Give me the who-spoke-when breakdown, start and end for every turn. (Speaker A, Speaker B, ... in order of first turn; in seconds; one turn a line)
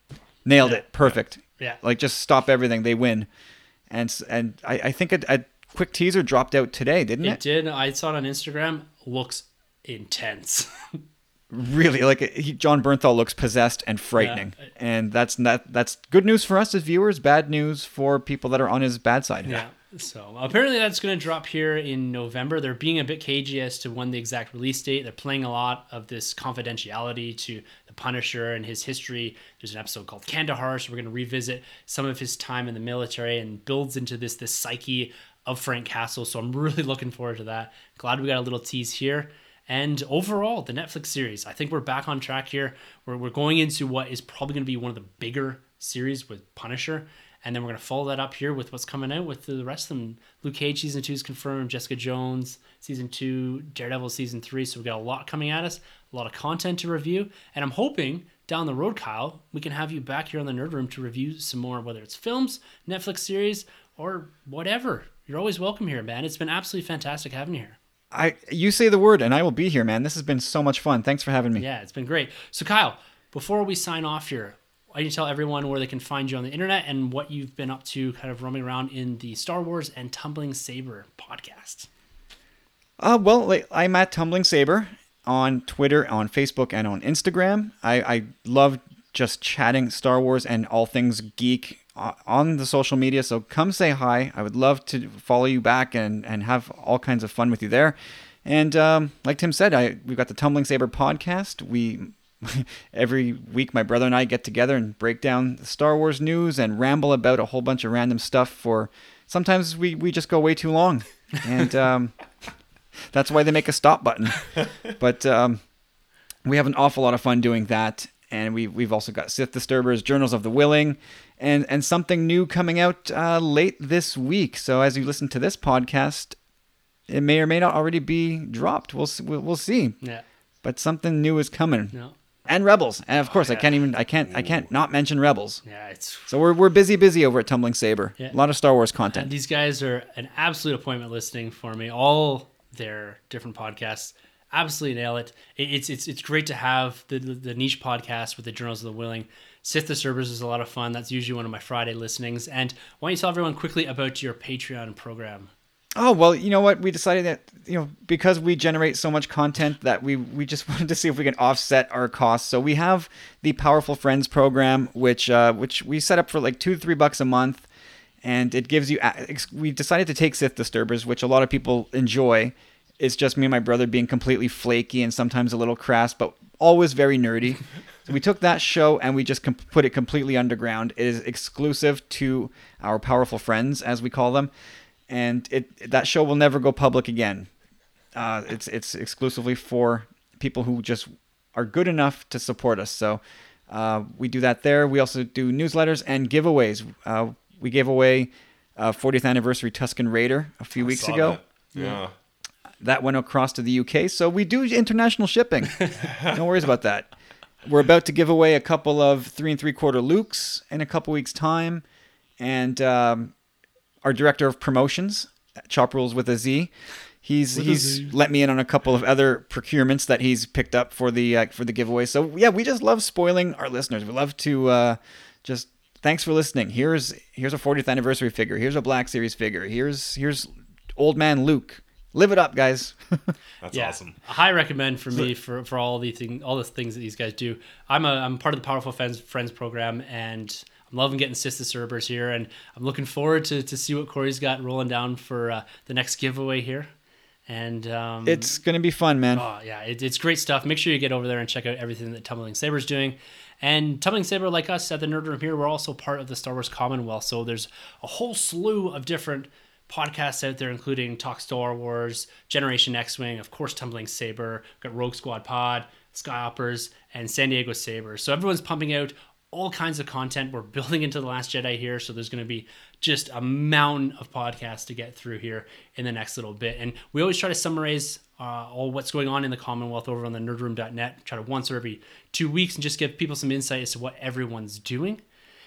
Speaker A: 0.4-3.3
Speaker B: 0.6-0.9
Speaker A: 3.9-7.4
Speaker B: 7.2-11.0
Speaker A: 11.5-19.6
Speaker B: 14.2-14.5
Speaker B: 19.4-67.8
Speaker A: 68.1-71.6
Speaker B: 71.6-81.9
Speaker A: 83.0-112.1
Speaker A: 113.1-115.6
Speaker A: 116.4-126.4
Speaker A: 127.1-130.0
Speaker A: 130.6-131.9
Speaker A: 132.5-135.6
Speaker B: 135.6-136.3
Speaker A: 136.3-139.3
Speaker B: 139.0-155.5
Speaker A: 155.9-167.7
Speaker A: 168.2-184.5
Speaker A: 185.1-187.5
Speaker A: 188.1-201.4
Speaker C: 200.8-202.1
Speaker A: 202.8-207.1
Speaker C: 206.0-206.5
Speaker A: 207.6-211.8
Speaker A: 212.4-213.3
Speaker A: 214.0-216.7
Speaker A: 217.2-233.2
Speaker B: 217.7-218.1
Speaker C: 233.6-234.2
Speaker B: 233.7-246.9
Speaker B: 247.5-248.5
Speaker A: 248.2-249.4
Speaker B: 249.3-285.2